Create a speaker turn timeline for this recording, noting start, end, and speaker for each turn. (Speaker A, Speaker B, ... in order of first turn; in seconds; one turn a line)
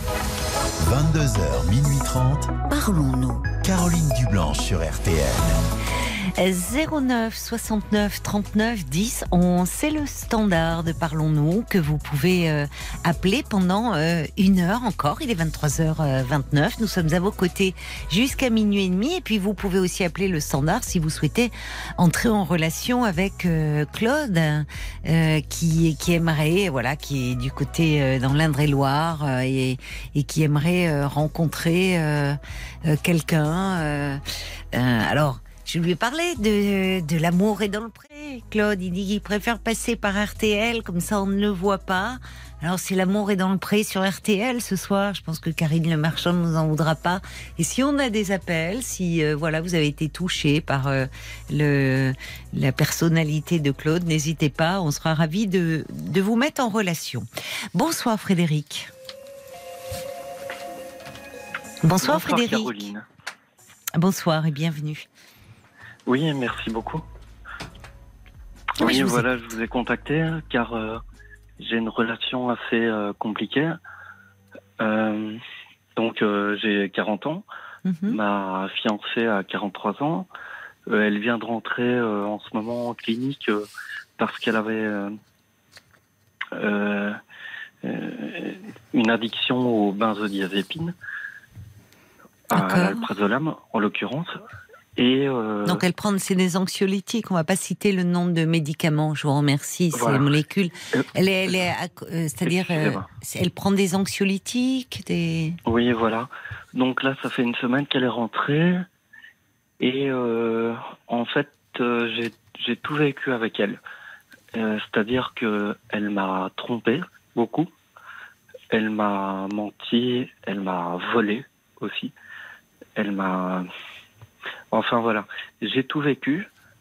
Speaker A: 0.8-2.5
Speaker B: 2.7-3.5
Speaker A: 3.6-5.6
Speaker B: 6.3-58.9
Speaker B: 61.8-62.9
Speaker C: 62.0-63.0
Speaker B: 64.0-65.1
Speaker C: 66.1-67.0
Speaker C: 68.8-71.0
Speaker B: 68.8-69.2
Speaker C: 71.6-73.8
Speaker C: 74.8-75.4
Speaker C: 76.0-77.5
Speaker B: 77.8-78.2
Speaker C: 78.1-80.3
Speaker C: 80.9-85.2
Speaker C: 86.5-87.2
Speaker C: 87.8-90.9
Speaker C: 92.5-94.3
Speaker B: 92.5-93.1
Speaker C: 95.0-95.8
Speaker B: 95.6-105.6
Speaker C: 99.9-100.3
Speaker C: 102.5-103.1
Speaker C: 105.7-108.8
Speaker C: 109.8-113.8
Speaker C: 114.5-117.7
Speaker C: 118.7-122.1
Speaker C: 123.0-123.7
Speaker C: 124.7-126.5